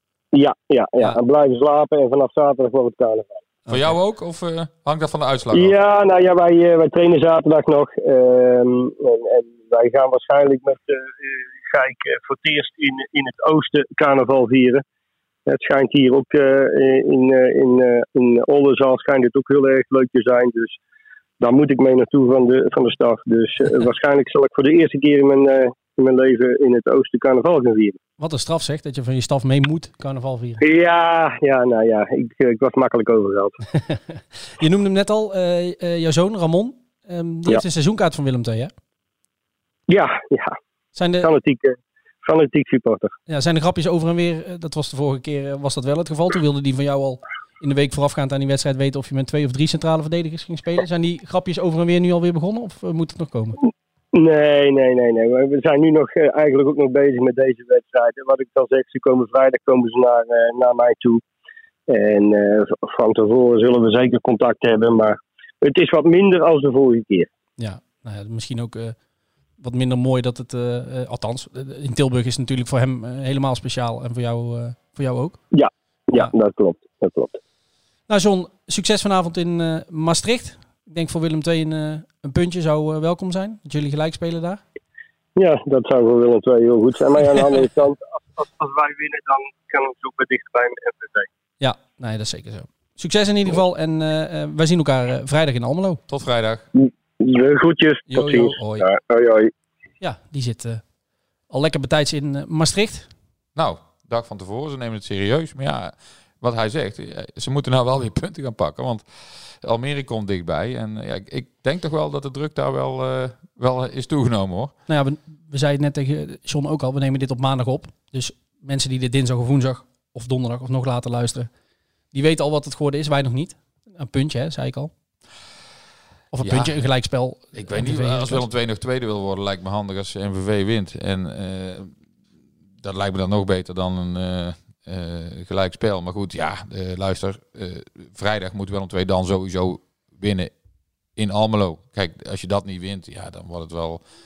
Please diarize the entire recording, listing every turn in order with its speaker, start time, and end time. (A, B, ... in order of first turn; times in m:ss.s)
0:00.3-0:03.4 A
0:03.7-0:04.0 B
0:03.7-0:05.7 C
0:05.5-0:14.8 A
0:15.5-0:20.8 A
0:21.4-0:28.0 A
0:28.2-0:30.6 B
0:30.6-0:33.6 A
0:33.8-0:38.7 B
0:39.9-0:40.6 A
0:41.0-0:41.3 B
0:41.2-0:43.2 A
0:43.3-0:53.6 B
0:54.1-1:01.2 A
1:01.9-1:07.3 A
1:07.6-1:09.0 B
1:09.6-1:15.4 B
1:15.5-1:17.4 A
1:18.1-1:24.6 B
1:25.4-1:31.3 A
1:31.6-1:36.0 B
1:36.1-1:36.6 C
1:36.8-1:39.5 A
1:38.1-1:38.8 B
1:40.0-1:40.8 B
1:41.5-1:43.1 B
1:43.6-1:54.7 C
1:54.9-2:01.5 B
2:02.1-2:04.9 B
2:06.3-2:08.4 B
2:06.4-2:06.8 C
2:07.5-2:12.0 C
2:12.8-2:20.5 C
2:21.2-2:24.0 C